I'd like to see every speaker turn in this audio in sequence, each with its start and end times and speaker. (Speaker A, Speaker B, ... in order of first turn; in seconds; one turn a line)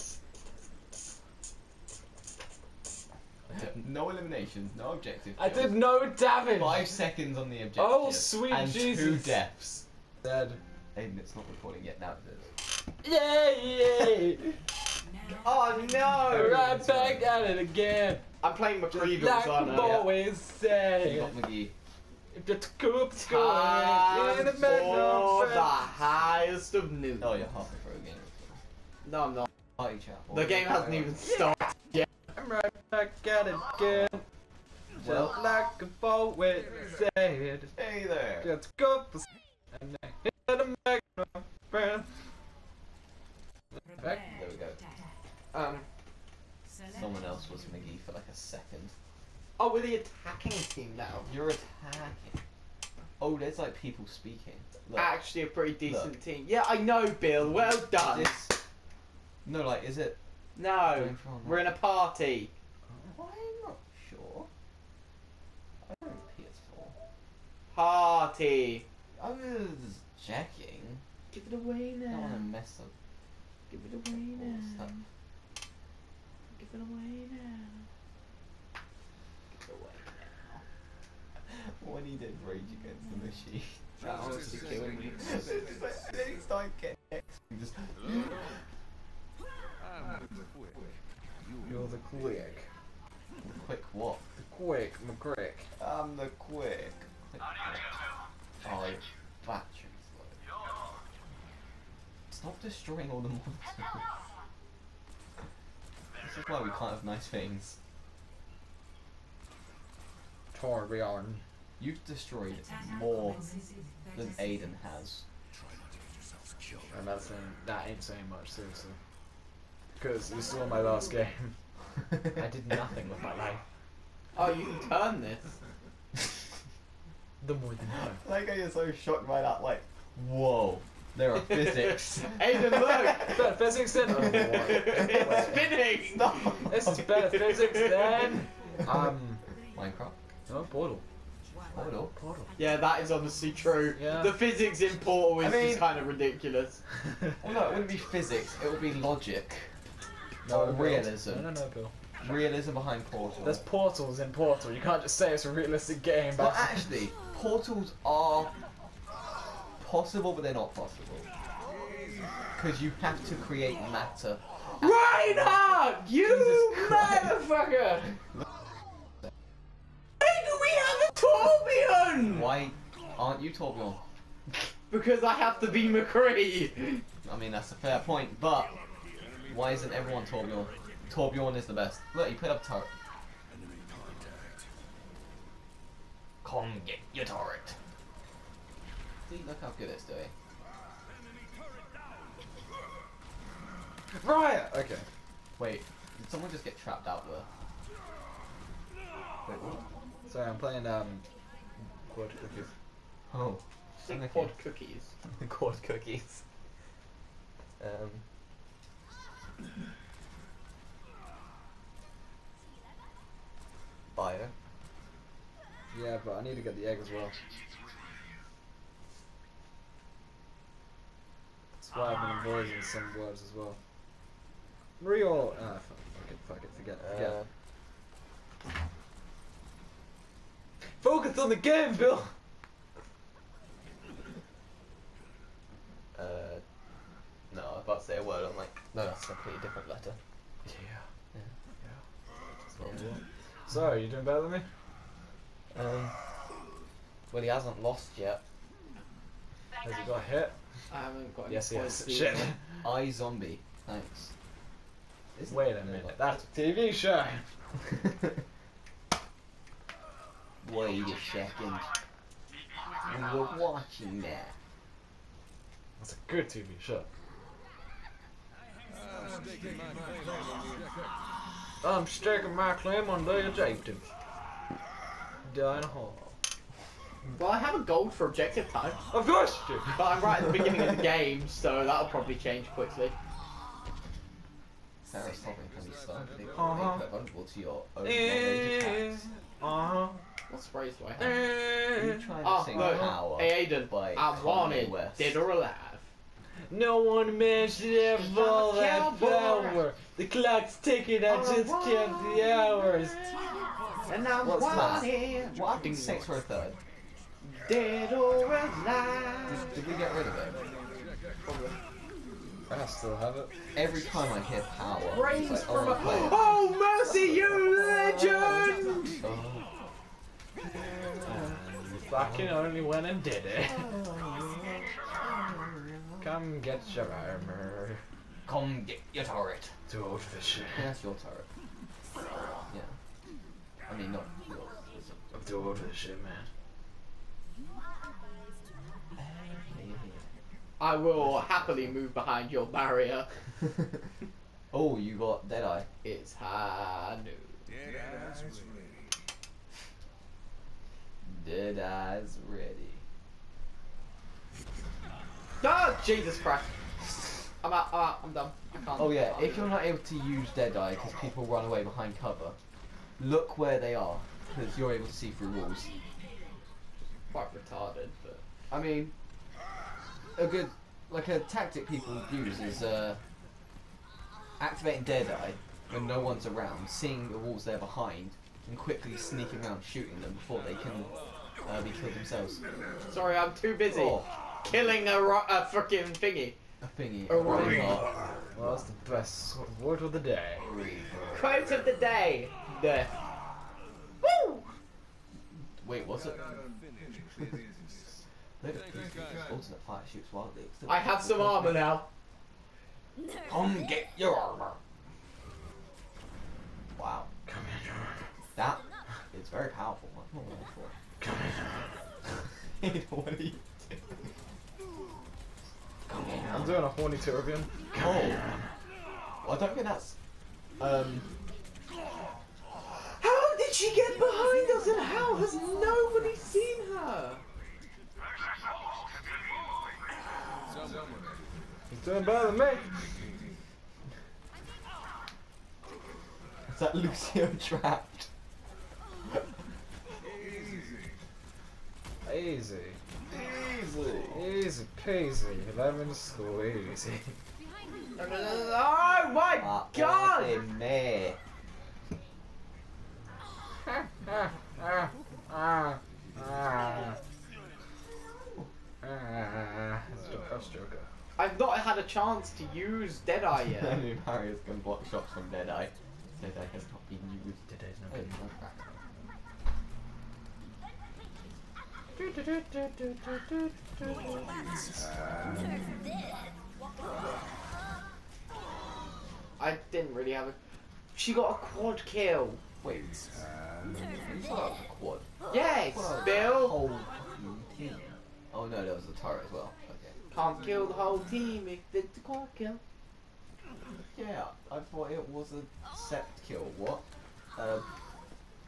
Speaker A: 3.5-5.8
Speaker B: 5.4-7.0
Speaker A: 6.5-9.8
Speaker B: 7.8-9.4
Speaker B: 10.2-10.6
Speaker A: 10.9-12.5
Speaker B: 13.0-14.5
Speaker C: 15.4-16.5
Speaker A: 15.5-17.3
Speaker B: 16.2-18.2
Speaker C: 18.4-20.1
Speaker B: 18.9-21.4
Speaker A: 19.5-20.1
Speaker A: 21.0-21.7
Speaker B: 22.3-25.8
Speaker C: 23.2-27.4
Speaker A: 24.6-25.2
Speaker A: 27.2-28.6
Speaker C: 29.1-29.5
Speaker A: 29.8-31.1
Speaker C: 30.3-31.7
Speaker B: 32.4-34.2
Speaker B: 35.0-37.7
Speaker A: 35.0-35.4
Speaker A: 37.8-38.5
Speaker B: 38.4-42.1
Speaker B: 44.0-44.2
Speaker A: 44.3-44.8
Speaker C: 45.5-45.9
Speaker A: 46.9-49.0
Speaker C: 49.6-51.3
Speaker A: 51.3-52.4
Speaker A: 53.2-55.1
Speaker C: 55.0-58.5
Speaker A: 55.9-56.1
Speaker A: 57.6-58.5
Speaker A: 59.5-60.2
Speaker C: 60.6-62.5
Speaker A: 60.9-61.7
Speaker A: 63.1-64.5
Speaker A: 65.8-67.0
Speaker C: 67.7-68.8
Speaker A: 69.2-71.0
Speaker C: 71.3-72.5
Speaker A: 72.1-72.9
Speaker C: 73.7-75.0
Speaker A: 74.3-74.9
Speaker C: 76.5-77.9
Speaker C: 79.5-80.6
Speaker A: 81.5-83.9
Speaker C: 84.0-85.2
Speaker A: 85.2-88.5
Speaker B: 91.7-92.7
Speaker A: 93.5-94.2
Speaker B: 94.4-95.7
Speaker A: 95.8-97.8
Speaker A: 98.6-100.4
Speaker A: 102.3-104.0
Speaker A: 106.2-107.8
Speaker B: 110.5-111.4
Speaker A: 111.8-113.4
Speaker A: 114.1-115.2
Speaker B: 116.9-119.0
Speaker B: 120.0-121.5
Speaker B: 122.3-123.6
Speaker C: 124.3-125.6
Speaker B: 127.4-128.2
Speaker A: 128.2-133.3
Speaker C: 132.2-133.4
Speaker B: 133.2-135.7
Speaker C: 134.3-136.7
Speaker A: 136.1-137.1
Speaker B: 136.7-139.4
Speaker C: 137.3-138.3
Speaker A: 139.7-140.2
Speaker B: 140.5-141.0
Speaker A: 141.7-142.1
Speaker B: 142.2-142.5
Speaker C: 142.6-146.8
Speaker B: 144.0-144.4
Speaker A: 145.4-145.9
Speaker A: 147.4-149.7
Speaker B: 150.4-151.9
Speaker A: 150.5-151.5
Speaker A: 152.2-153.6
Speaker B: 153.4-156.9
Speaker A: 156.3-158.5
Speaker A: 159.8-161.3
Speaker A: 162.6-167.3
Speaker C: 164.7-168.2
Speaker C: 170.2-172.5
Speaker A: 172.2-174.0
Speaker C: 174.9-177.0
Speaker A: 177.2-178.8
Speaker A: 179.5-182.9
Speaker A: 186.4-187.8
Speaker A: 189.3-190.3
Speaker B: 194.1-195.1
Speaker A: 195.6-197.5
Speaker A: 199.5-199.9
Speaker B: 200.3-201.2
Speaker B: 202.1-202.7
Speaker A: 203.3-204.5
Speaker C: 204.0-205.1
Speaker A: 205.3-206.4
Speaker A: 207.8-208.2
Speaker A: 214.2-214.5
Speaker B: 215.9-217.4
Speaker B: 221.8-223.8
Speaker B: 225.0-227.4
Speaker A: 227.0-227.5
Speaker B: 231.0-232.3
Speaker A: 236.2-236.6
Speaker A: 237.5-240.2
Speaker B: 240.7-241.1
Speaker A: 242.7-243.1
Speaker B: 242.8-244.7
Speaker A: 245.7-246.2
Speaker A: 247.3-248.4
Speaker B: 249.8-250.5
Speaker C: 250.9-252.5
Speaker B: 251.5-252.8
Speaker A: 252.8-254.3
Speaker A: 255.3-256.4
Speaker B: 255.5-257.5
Speaker A: 257.9-258.3
Speaker A: 260.6-261.9
Speaker A: 263.1-264.6
Speaker B: 266.0-267.1
Speaker B: 271.8-274.0
Speaker B: 275.5-276.3
Speaker C: 277.4-279.0
Speaker B: 279.1-280.0
Speaker C: 279.9-283.1
Speaker A: 285.0-289.2
Speaker B: 286.5-287.1
Speaker B: 288.0-290.2
Speaker C: 290.5-291.5
Speaker B: 291.2-293.1
Speaker A: 291.9-295.4
Speaker C: 292.4-296.1
Speaker B: 296.7-303.3
Speaker C: 298.1-299.8
Speaker C: 301.3-302.1
Speaker A: 301.4-302.1
Speaker C: 304.1-306.4
Speaker A: 304.4-306.8
Speaker C: 307.4-309.8
Speaker A: 309.5-310.6
Speaker C: 311.4-311.8
Speaker B: 312.7-313.5
Speaker A: 313.8-316.5
Speaker C: 315.1-319.1
Speaker A: 317.1-319.7
Speaker A: 320.7-321.6
Speaker B: 321.2-324.0
Speaker A: 322.1-322.7
Speaker A: 323.6-326.3
Speaker B: 326.2-328.0
Speaker A: 328.5-329.8
Speaker B: 329.9-330.9
Speaker A: 330.7-331.5
Speaker A: 332.6-333.0
Speaker A: 333.9-335.4
Speaker B: 335.3-336.5
Speaker A: 339.2-340.4
Speaker C: 340.8-343.3
Speaker A: 341.2-341.9
Speaker A: 344.7-345.9
Speaker C: 346.0-347.6
Speaker A: 351.2-353.0
Speaker C: 355.6-356.7
Speaker C: 357.6-359.7
Speaker A: 359.0-362.6
Speaker A: 363.2-365.9
Speaker C: 367.3-368.4
Speaker A: 368.7-369.1
Speaker A: 370.4-373.2
Speaker A: 374.6-381.1
Speaker A: 381.7-382.6
Speaker C: 383.1-386.6
Speaker A: 383.9-384.3
Speaker A: 386.8-388.9
Speaker C: 387.3-388.0
Speaker B: 387.5-387.9
Speaker B: 388.5-390.7
Speaker A: 390.6-391.9
Speaker C: 391.4-393.1
Speaker C: 394.2-394.6
Speaker A: 395.8-396.6
Speaker A: 398.6-401.9
Speaker C: 400.9-402.1
Speaker A: 403.5-404.8
Speaker A: 407.0-407.3
Speaker B: 407.5-408.2
Speaker A: 408.6-410.9
Speaker B: 411.2-411.9
Speaker A: 412.8-414.1
Speaker A: 416.1-416.8
Speaker B: 416.5-418.5
Speaker A: 417.9-418.4
Speaker A: 419.4-420.2
Speaker A: 420.8-421.3
Speaker C: 423.2-427.4
Speaker B: 431.9-432.9
Speaker A: 436.7-438.3
Speaker B: 442.2-443.0
Speaker A: 443.3-444.4
Speaker B: 444.3-447.3
Speaker C: 448.2-450.6
Speaker A: 449.5-451.4
Speaker B: 454.2-457.2
Speaker B: 459.0-461.1
Speaker C: 461.4-464.0
Speaker A: 463.6-468.9
Speaker B: 467.7-468.5
Speaker C: 479.6-480.6
Speaker C: 481.1-482.6
Speaker A: 482.8-483.2
Speaker A: 483.8-490.1
Speaker C: 485.5-486.8
Speaker C: 490.3-492.8
Speaker A: 494.0-497.0
Speaker A: 497.6-497.9